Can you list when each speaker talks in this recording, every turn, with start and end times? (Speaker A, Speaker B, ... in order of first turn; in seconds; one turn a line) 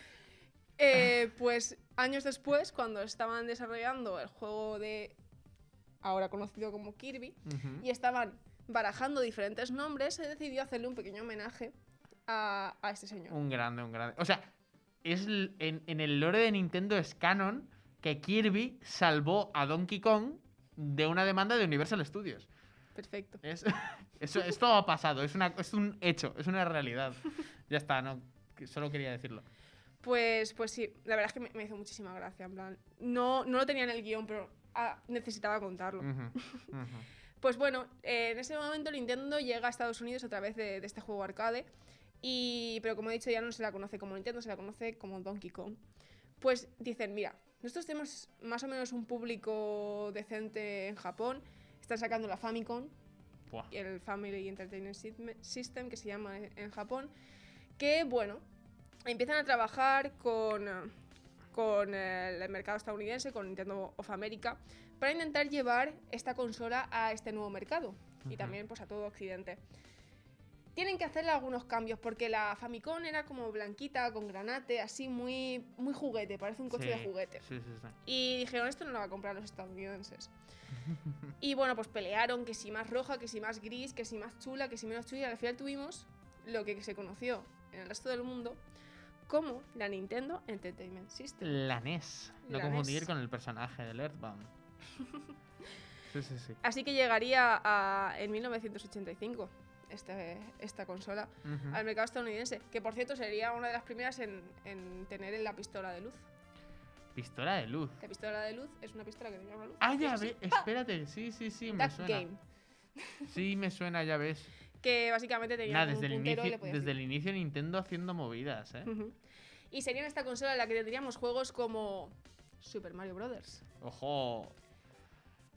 Speaker A: 0.8-5.2
Speaker A: 6.0-11.7
Speaker B: 7.5-7.8
Speaker A: 12.3-13.3
Speaker B: 13.3-14.5
Speaker B: 15.0-22.5
Speaker A: 22.9-23.4
Speaker B: 23.4-29.4
Speaker A: 30.0-36.7
Speaker B: 36.0-37.1
Speaker A: 37.4-41.7
Speaker A: 42.2-45.8
Speaker A: 46.4-52.9
Speaker A: 53.7-57.1
Speaker A: 57.8-58.4
Speaker A: 59.0-60.9
Speaker A: 61.5-69.6
Speaker B: 68.3-68.5
Speaker A: 70.7-77.4
Speaker B: 76.7-77.9
Speaker A: 78.0-80.3
Speaker A: 81.4-88.6
Speaker A: 89.3-91.6
Speaker B: 91.4-94.5
Speaker A: 92.4-93.1
Speaker B: 96.1-96.6
Speaker A: 96.6-106.2
Speaker B: 101.4-101.8
Speaker B: 107.1-108.0
Speaker A: 108.0-110.7
Speaker B: 109.8-112.2
Speaker A: 111.8-112.4
Speaker A: 113.0-113.3
Speaker B: 113.3-114.5
Speaker A: 114.8-116.9
Speaker B: 115.7-118.9
Speaker A: 118.8-119.2
Speaker A: 119.7-123.6
Speaker B: 123.8-124.5